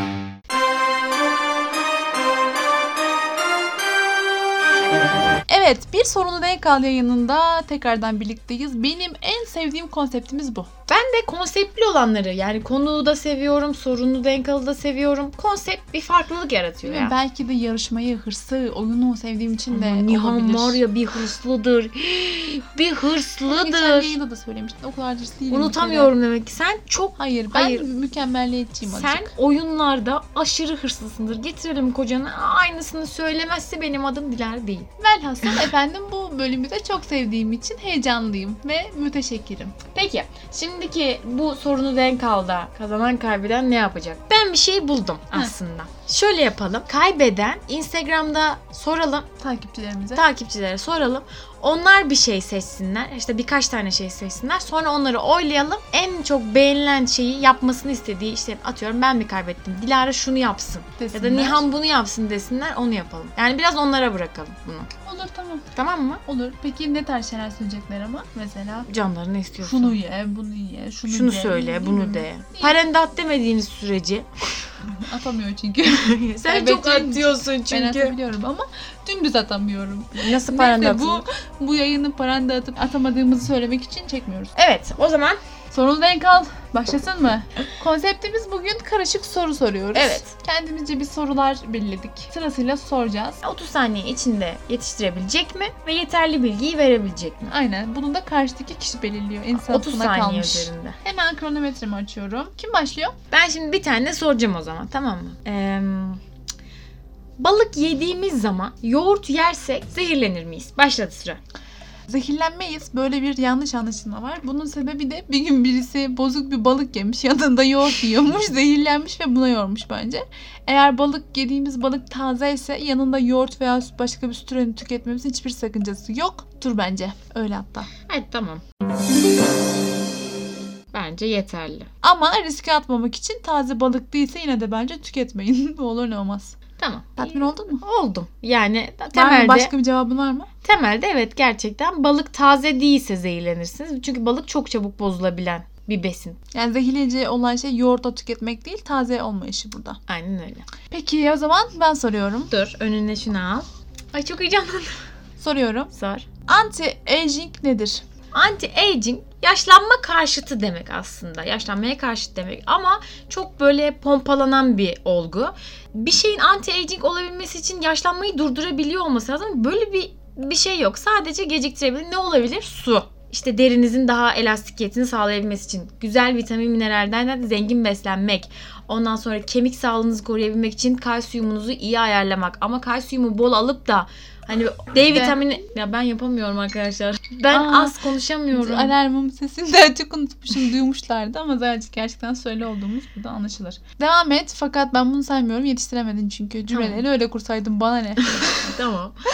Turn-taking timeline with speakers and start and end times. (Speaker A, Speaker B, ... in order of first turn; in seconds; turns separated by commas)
Speaker A: 5.5-10.7, Speaker B: 10.9-17.1, Speaker A: 16.8-20.8, Speaker B: 19.7-24.2, Speaker A: 23.5-26.1, Speaker B: 25.5-27.9, Speaker A: 27.2-29.3, Speaker B: 28.8-34.9, Speaker A: 35.0-39.8, Speaker B: 39.9-49.3, Speaker A: 49.4-50.3, Speaker B: 50.1-64.9, Speaker A: 61.0-61.6, Speaker A: 65.0-65.7, Speaker B: 65.8-66.2, Speaker A: 66.2-68.9, Speaker B: 68.9-70.0, Speaker A: 69.6-72.8, Speaker B: 71.1-74.3, Speaker A: 74.8-84.5, Speaker B: 76.0-78.2, Speaker B: 80.2-81.2, Speaker B: 84.6-85.4, Speaker A: 85.7-93.4, Speaker B: 90.0-90.3, Speaker B: 93.4-97.5, Speaker A: 97.5-103.2, Speaker B: 99.6-101.0, Speaker B: 103.3-106.2, Speaker B: 107.4-111.4, Speaker A: 112.1-127.9, Speaker B: 128.1-128.6, Speaker B: 130.9-131.9, Speaker A: 132.0-136.6, Speaker B: 136.8-139.7, Speaker A: 137.2-137.8, Speaker A: 139.1-140.5, Speaker B: 140.6-146.4, Speaker A: 146.5-150.0, Speaker B: 150.1-150.7, Speaker A: 150.8-152.5, Speaker B: 152.5-155.0, Speaker A: 155.4-155.9, Speaker B: 155.9-156.3, Speaker A: 156.4-158.0, Speaker B: 158.3-188.9, Speaker A: 185.1-185.4, Speaker A: 187.5-198.7, Speaker B: 196.7-197.0, Speaker B: 198.4-199.2